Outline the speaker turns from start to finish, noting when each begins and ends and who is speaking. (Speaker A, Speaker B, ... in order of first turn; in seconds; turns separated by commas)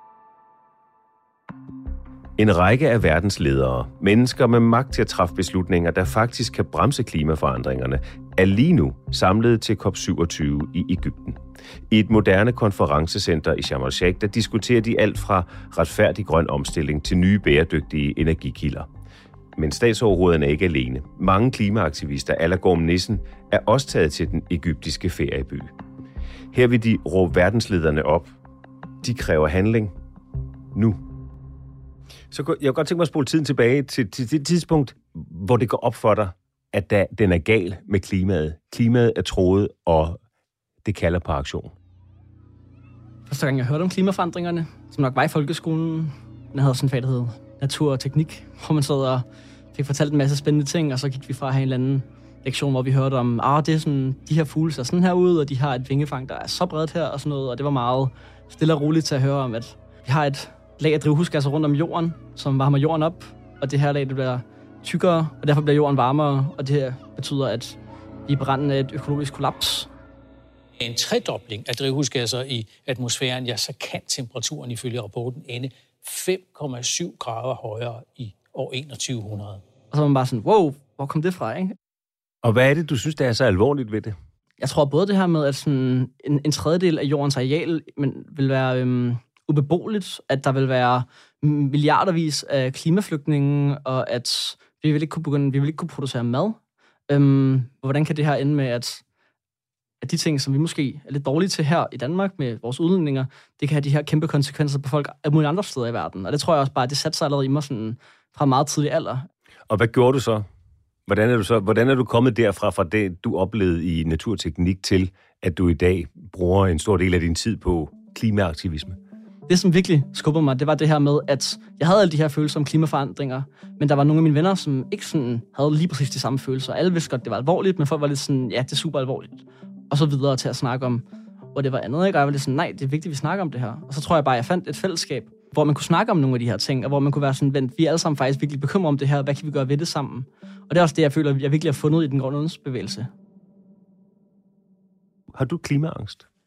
Speaker A: 2.4-18.9, Speaker A: 19.6-25.7, Speaker A: 26.5-28.3, Speaker A: 29.0-29.9, Speaker A: 30.7-31.0, Speaker A: 32.3-40.2, Speaker A: 40.8-41.7, Speaker B: 43.2-69.9, Speaker C: 70.8-79.6, Speaker B: 79.9-81.8, Speaker A: 82.4-84.2, Speaker B: 84.6-96.6, Speaker B: 97.1-99.0, Speaker B: 100.0-109.3, Speaker A: 109.7-110.5, Speaker A: 111.1-119.0, Speaker B: 119.5-143.1, Speaker A: 145.3-146.2